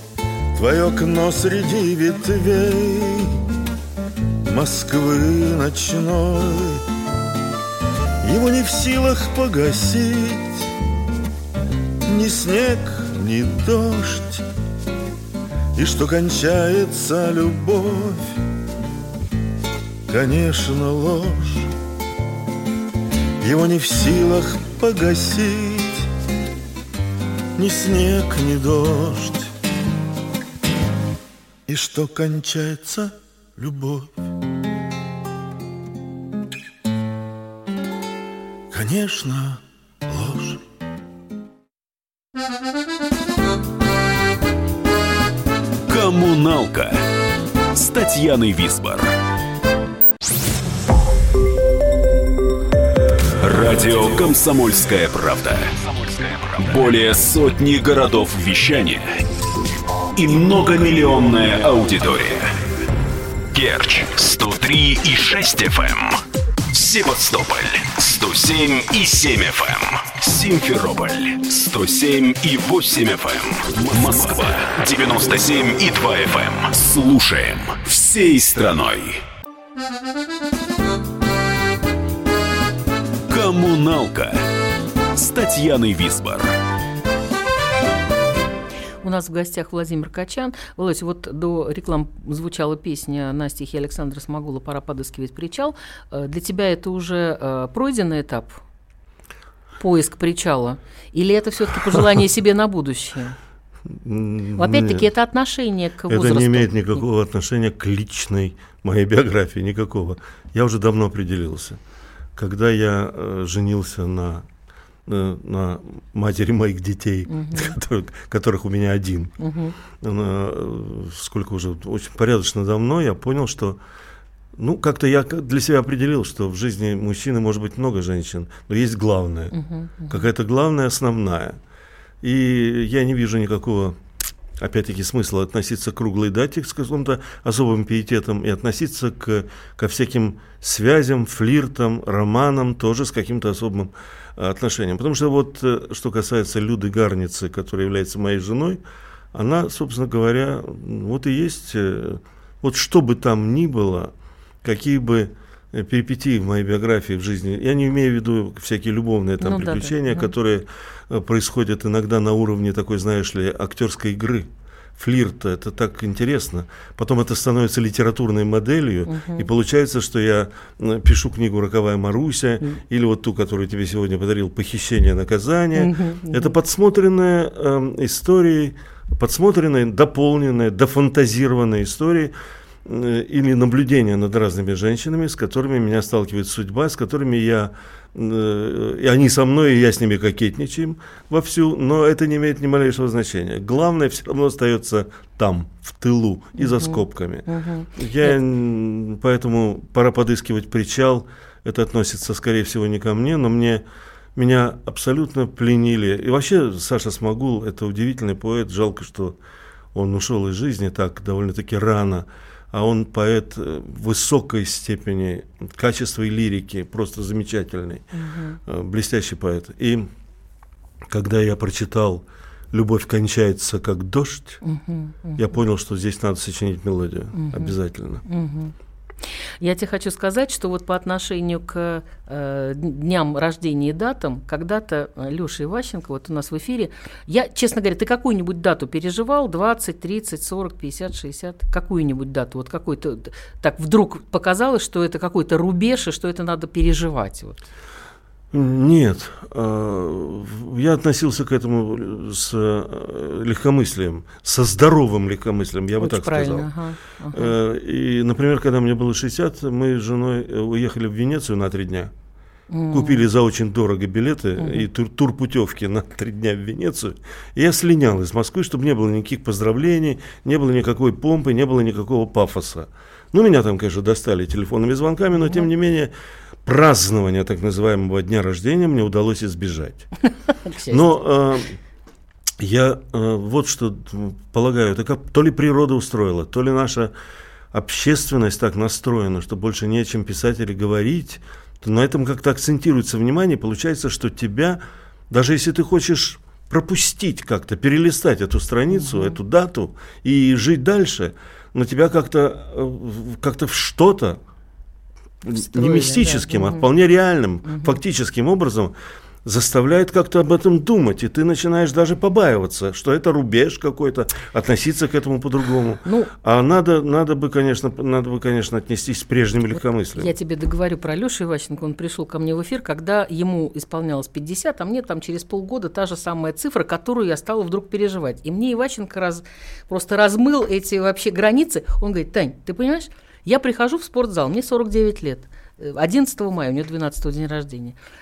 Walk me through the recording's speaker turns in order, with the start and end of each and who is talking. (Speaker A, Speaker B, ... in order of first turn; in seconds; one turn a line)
Speaker A: 0.6-3.4
Speaker A: 4.5-6.8
Speaker A: 8.2-10.7
Speaker A: 12.1-14.4
Speaker A: 15.8-18.4
Speaker A: 20.1-21.7
Speaker A: 23.4-26.1
Speaker A: 27.6-29.5
Speaker A: 31.7-34.1
Speaker A: 38.7-40.6
Speaker B: 45.9-47.0
Speaker B: 47.7-49.1
Speaker B: 53.4-59.2
Speaker B: 60.1-62.6
Speaker B: 63.5-79.2
Speaker B: 83.3-84.4
Speaker B: 85.2-86.6
Speaker C: 89.0-98.6
Speaker C: 99.8-103.4
Speaker A: 104.0-105.1
Speaker C: 104.6-107.0
Speaker A: 106.1-111.8
Speaker A: 112.4-114.5
Speaker A: 115.1-119.3
Speaker C: 117.3-117.7
Speaker C: 119.4-119.8
Speaker A: 120.0-123.8
Speaker A: 124.6-129.5
Speaker C: 129.5-130.3
Speaker A: 130.1-131.6
Speaker A: 132.2-134.0
Speaker A: 134.6-148.8
Speaker A: 149.3-154.1
Speaker A: 154.6-182.3
Speaker C: 159.4-160.3
Speaker C: 169.1-169.5
Speaker C: 175.8-176.5
Speaker A: 182.8-197.5
Speaker C: 196.6-198.4
Speaker A: 198.0-203.8
Speaker A: 204.4-209.4
Speaker A: 209.9-218.0
Speaker C: 218.1-218.6
Speaker A: 218.7-220.1
Speaker A: 221.1-224.6
Speaker C: 224.6-225.4
Speaker A: 225.4-228.2
Speaker C: 227.3-228.7
Speaker C: 229.6-247.6
Speaker A: 248.5-256.7
Speaker C: 256.0-257.6
Speaker A: 257.3-262.1
Speaker C: 262.7-263.3
Speaker A: 262.9-276.1
Speaker C: 264.6-264.9
Speaker C: 275.3-275.7
Speaker A: 276.7-280.1
Speaker C: 280.6-281.2
Speaker A: 280.9-281.8
Speaker A: 282.6-287.1
Speaker A: 287.7-294.8
Speaker A: 295.3-304.4
Speaker C: 298.9-299.4
Speaker A: 305.5-308.9
Speaker C: 305.5-306.9
Speaker C: 307.6-308.0
Speaker A: 309.4-320.3
Speaker C: 316.0-316.3
Speaker C: 320.1-338.0